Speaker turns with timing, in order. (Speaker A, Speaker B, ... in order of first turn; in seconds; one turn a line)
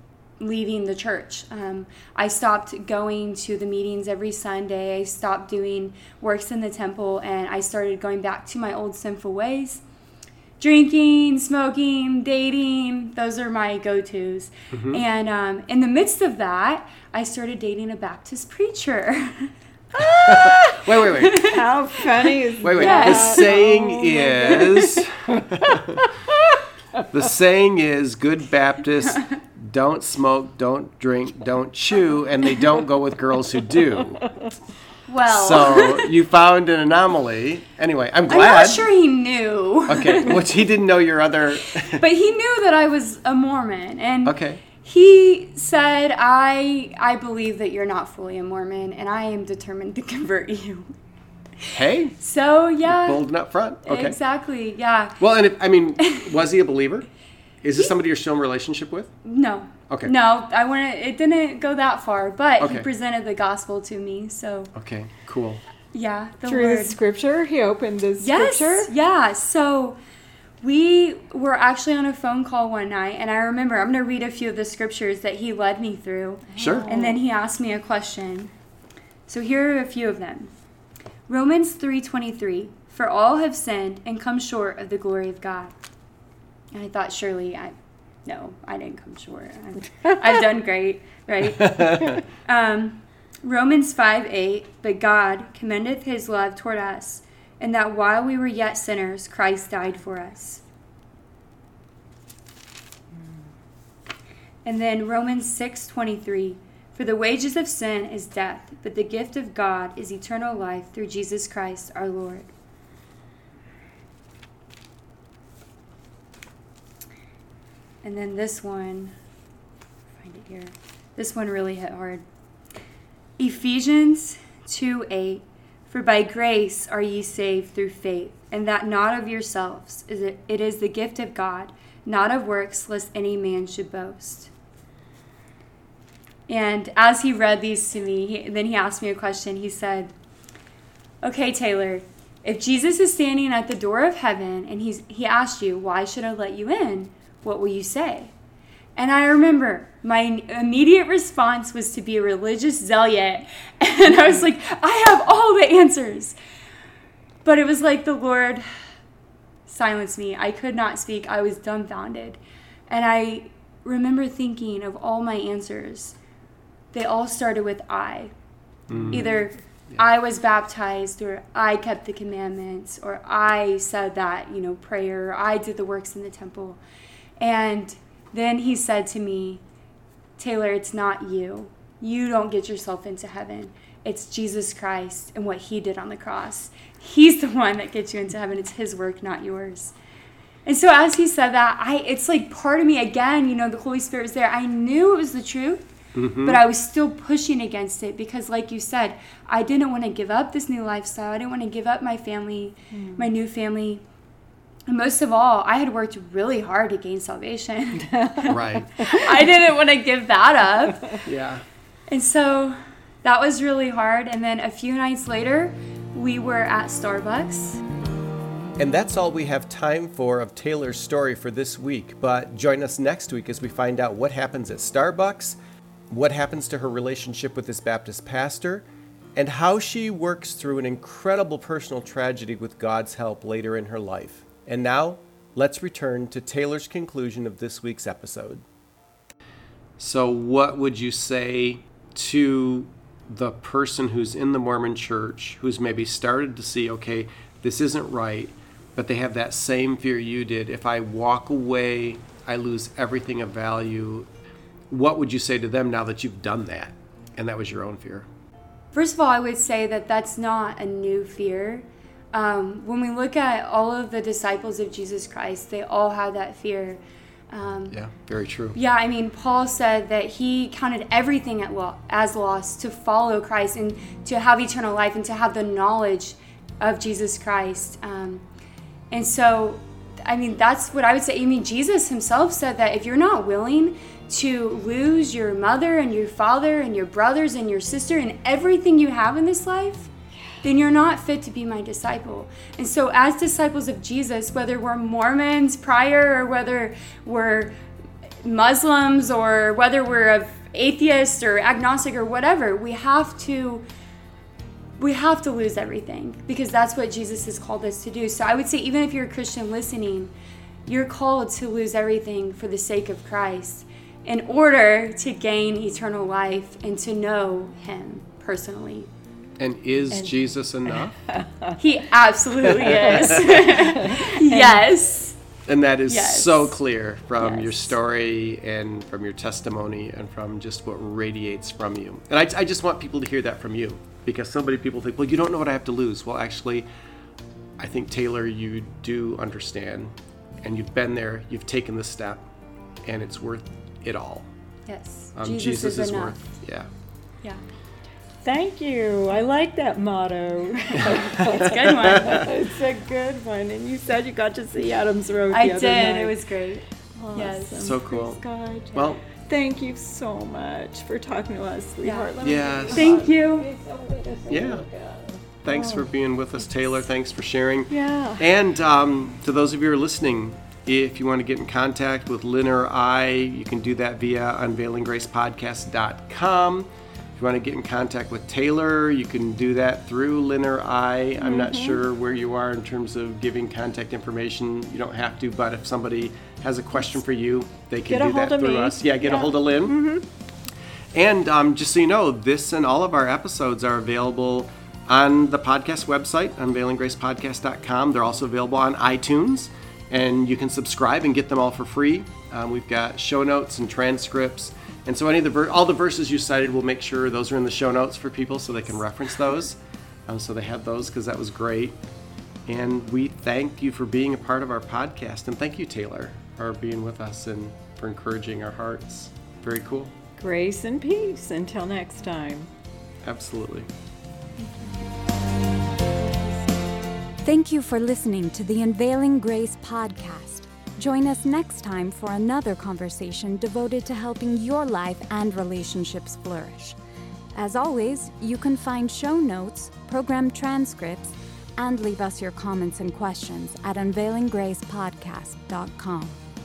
Speaker A: 0.4-9.8
Speaker A: 10.6-19.5
Speaker B: 14.7-15.0
Speaker C: 19.9-27.0
Speaker B: 20.0-21.5
Speaker A: 21.2-21.6
Speaker A: 22.2-23.5
Speaker B: 22.6-26.1
Speaker B: 27.1-34.3
Speaker A: 35.1-36.0
Speaker B: 35.3-38.9
Speaker A: 38.3-40.5
Speaker B: 39.9-42.0
Speaker A: 41.9-50.9
Speaker B: 44.2-44.6
Speaker A: 51.6-53.2
Speaker B: 51.8-52.1
Speaker B: 52.8-54.2
Speaker A: 53.8-55.2
Speaker B: 55.2-57.1
Speaker A: 56.0-56.3
Speaker B: 57.6-59.1
Speaker A: 59.2-64.7
Speaker B: 62.6-62.9
Speaker B: 64.7-65.6
Speaker A: 65.9-67.0
Speaker C: 66.4-68.9
Speaker A: 68.2-70.0
Speaker A: 70.6-78.5
Speaker C: 76.5-77.2
Speaker B: 76.6-76.9
Speaker A: 79.3-80.5
Speaker A: 81.3-85.7
Speaker A: 86.7-87.7
Speaker A: 88.2-100.6
Speaker B: 91.5-92.2
Speaker A: 104.7-112.5
Speaker A: 118.0-119.2
Speaker A: 120.2-122.2
Speaker A: 123.4-134.5
Speaker A: 136.5-140.1
Speaker A: 141.2-148.3
Speaker A: 149.0-156.4
Speaker A: 157.4-158.8
Speaker A: 159.7-166.2
Speaker A: 166.9-168.3
Speaker B: 168.9-170.0
Speaker A: 169.1-176.8
Speaker A: 177.4-179.6
Speaker A: 180.4-189.9
Speaker A: 190.7-195.8
Speaker B: 196.2-196.6
Speaker A: 196.4-204.0
Speaker C: 202.9-203.3
Speaker A: 204.9-211.2
Speaker C: 208.0-209.6
Speaker B: 208.5-208.9
Speaker B: 211.2-211.6
Speaker A: 212.1-217.8
Speaker B: 218.8-225.6
Speaker B: 226.1-238.6
Speaker B: 240.0-254.3
Speaker B: 254.9-258.3
Speaker A: 258.9-268.0
Speaker B: 267.9-268.8
Speaker A: 268.8-278.4
Speaker A: 279.1-290.1
Speaker A: 290.6-297.7
Speaker A: 298.4-303.8
Speaker A: 305.0-310.3
Speaker A: 310.9-319.1
Speaker B: 319.6-321.2
Speaker C: 320.1-320.4
Speaker C: 320.9-321.8
Speaker A: 321.8-325.4
Speaker B: 322.6-323.6
Speaker C: 323.0-324.9
Speaker B: 325.7-336.9
Speaker A: 326.1-326.8
Speaker A: 327.4-327.9
Speaker B: 337.8-342.5
Speaker B: 343.0-344.5
Speaker A: 344.9-346.4
Speaker B: 345.4-346.9
Speaker C: 348.4-356.4
Speaker A: 351.4-352.5
Speaker A: 355.5-357.8
Speaker C: 357.2-366.1
Speaker B: 357.8-358.4
Speaker B: 358.9-359.2
Speaker A: 362.0-362.3
Speaker B: 362.4-363.2
Speaker A: 362.9-363.7
Speaker B: 364.5-364.9
Speaker B: 365.6-390.0
Speaker C: 367.9-368.5
Speaker C: 381.4-382.0
Speaker C: 388.1-390.2
Speaker B: 391.1-412.0
Speaker B: 412.7-420.1
Speaker C: 420.4-422.7
Speaker B: 423.2-423.9
Speaker D: 427.4-437.0
Speaker D: 437.6-446.4